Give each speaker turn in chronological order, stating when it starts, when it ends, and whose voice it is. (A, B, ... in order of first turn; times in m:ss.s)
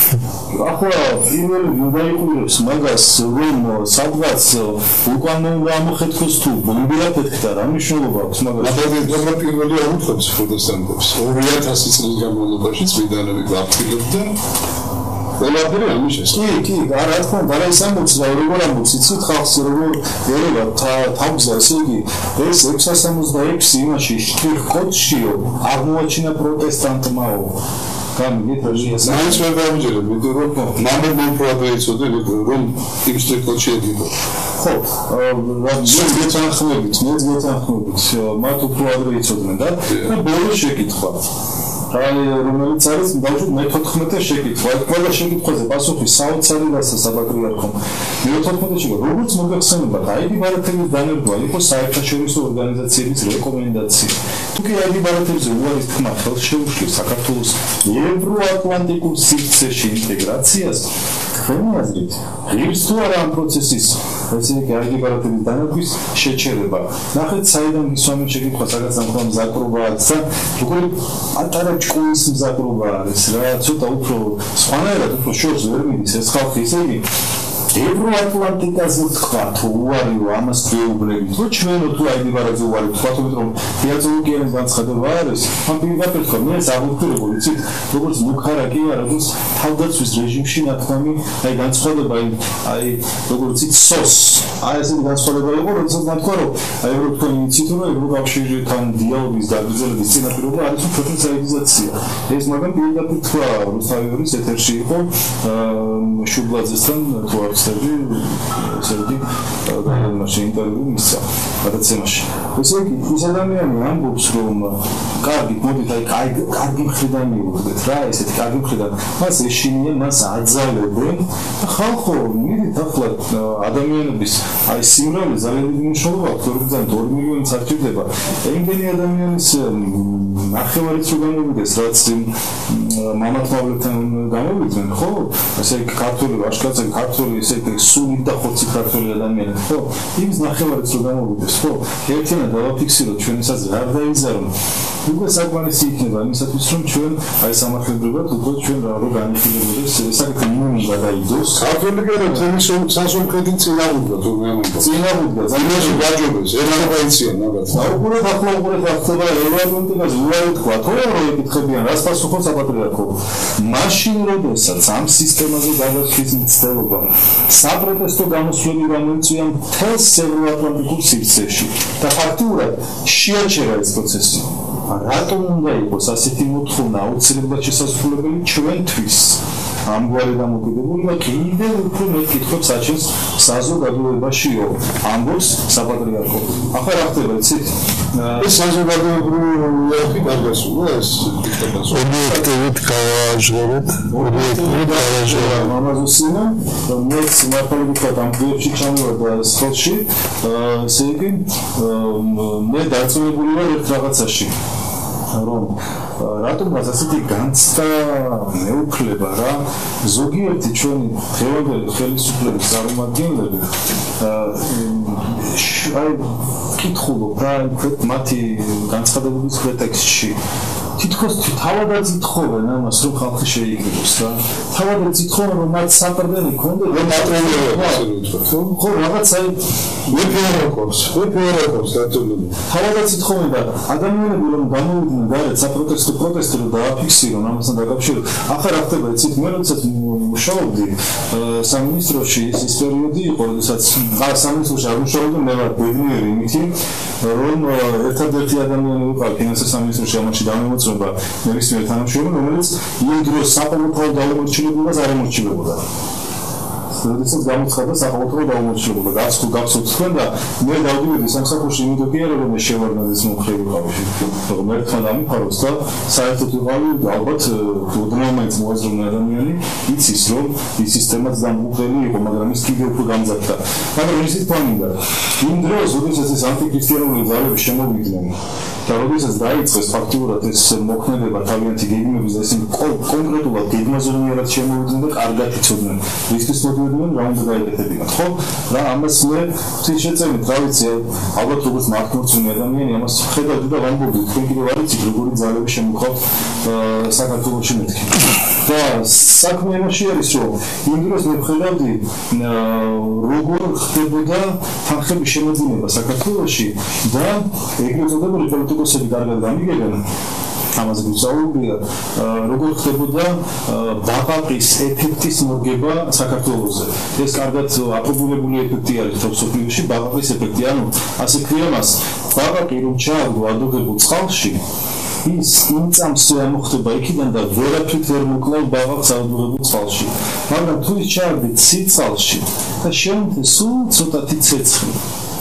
0:00.5-0:09.3 A
0:08.6-0:14.4 B
0:15.4-0:16.4 B
0:16.3-0:27.6 A
0:28.2-0:29.5 A
0:28.7-0:34.1 B
0:34.6-0:41.3 A
0:35.8-0:36.4 B
0:39.9-0:40.2 B
0:41.9-1:17.1 A
1:17.7-2:31.7 A
2:31.6-2:35.0 B
2:34.8-2:36.1 A
2:35.5-2:38.0 B
2:37.7-3:08.5 A
3:08.4-3:12.3 B
3:11.9-3:15.8 C
3:14.1-3:24.6 A
3:25.3-3:40.4 A
3:41.0-3:48.1 A
3:46.9-3:48.8 B
3:48.6-3:49.6 A
3:50.1-3:52.6 B
3:52.7-4:15.8 A
4:17.0-5:10.0 A
5:10.7-5:24.6 A
5:25.2-5:35.0 A